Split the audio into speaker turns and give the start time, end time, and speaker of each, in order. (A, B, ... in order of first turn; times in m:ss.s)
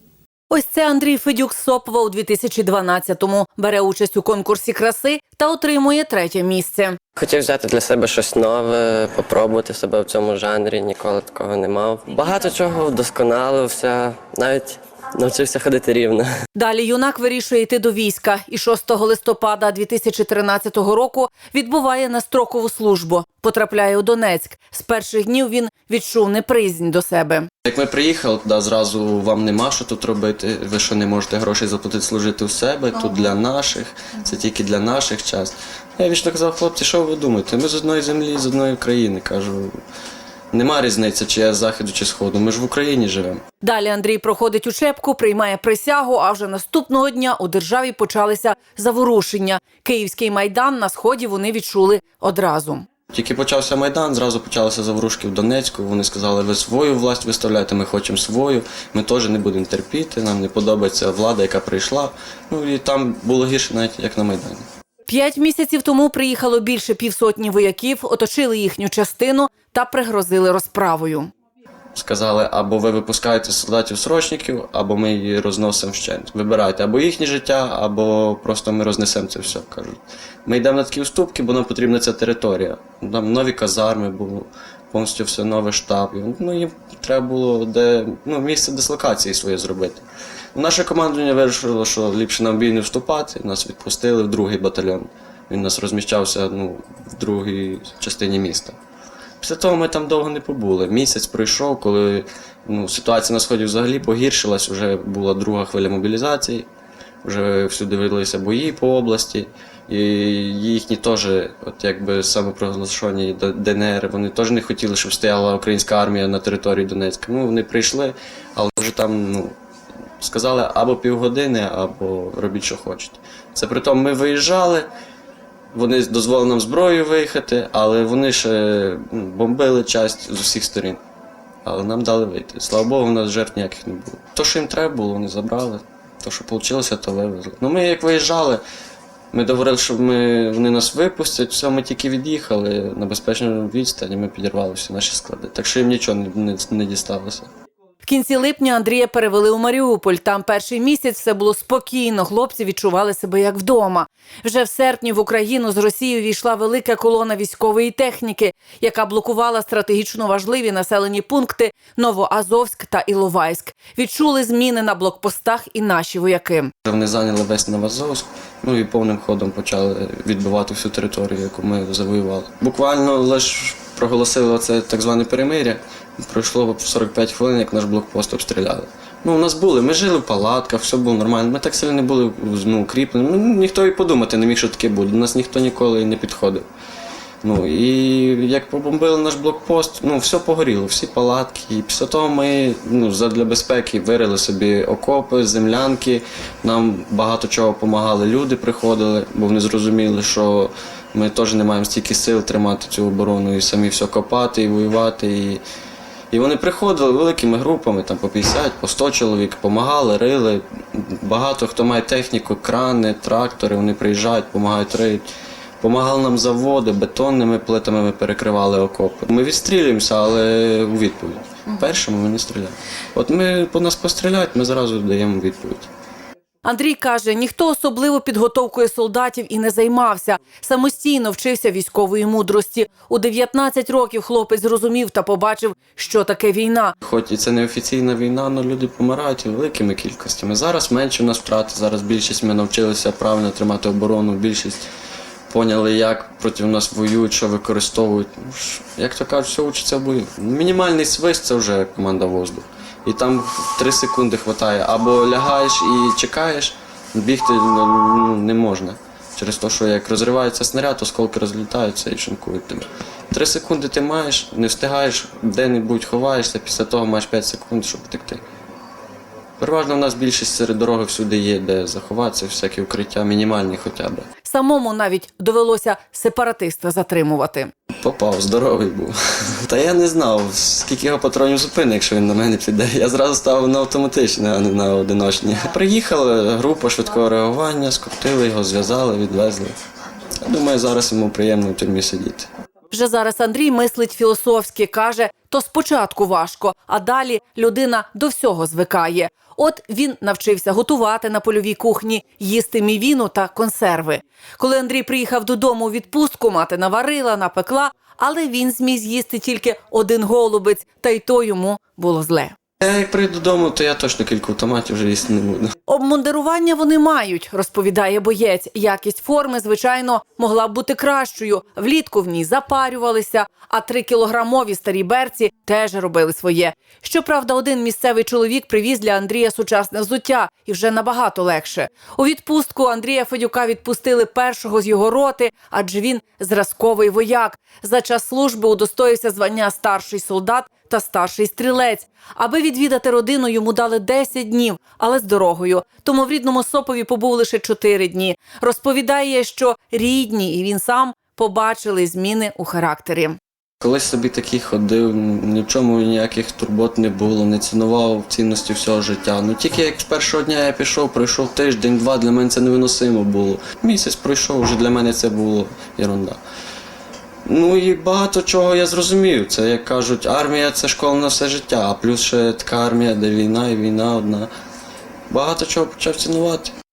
0:00.5-0:07.0 A
0:07.2-0:16.3 B
0:16.5-0:27.5 A
0:27.6-0:39.8 C
0:40.5-0:43.4 C
0:43.6-0:52.8 A
0:53.1-1:04.6 C
1:05.1-1:11.3 A
1:11.9-1:30.0 C
1:30.5-1:38.8 C
1:39.4-1:46.6 C
1:47.2-1:59.5 C
2:00.2-2:04.9 C
2:05.7-2:11.0 C
2:11.6-2:18.6 C
2:19.3-2:27.5 C
2:28.0-2:46.7 A
2:46.8-3:06.6 C
3:07.4-3:25.6 C
3:26.3-3:35.3 C
3:35.8-3:45.9 C
3:46.6-3:57.0 A
3:57.0-4:04.8 C
4:05.5-4:28.4 C
4:29.6-4:34.2 C
4:34.4-4:37.7 A
4:38.0-4:49.8 C
4:50.4-4:52.5 C
4:52.9-5:12.5 A
5:12.8-5:15.7 C
5:15.9-5:53.4 A
5:53.8-6:06.4 C
6:07.4-6:14.5 C
6:15.3-6:16.7 C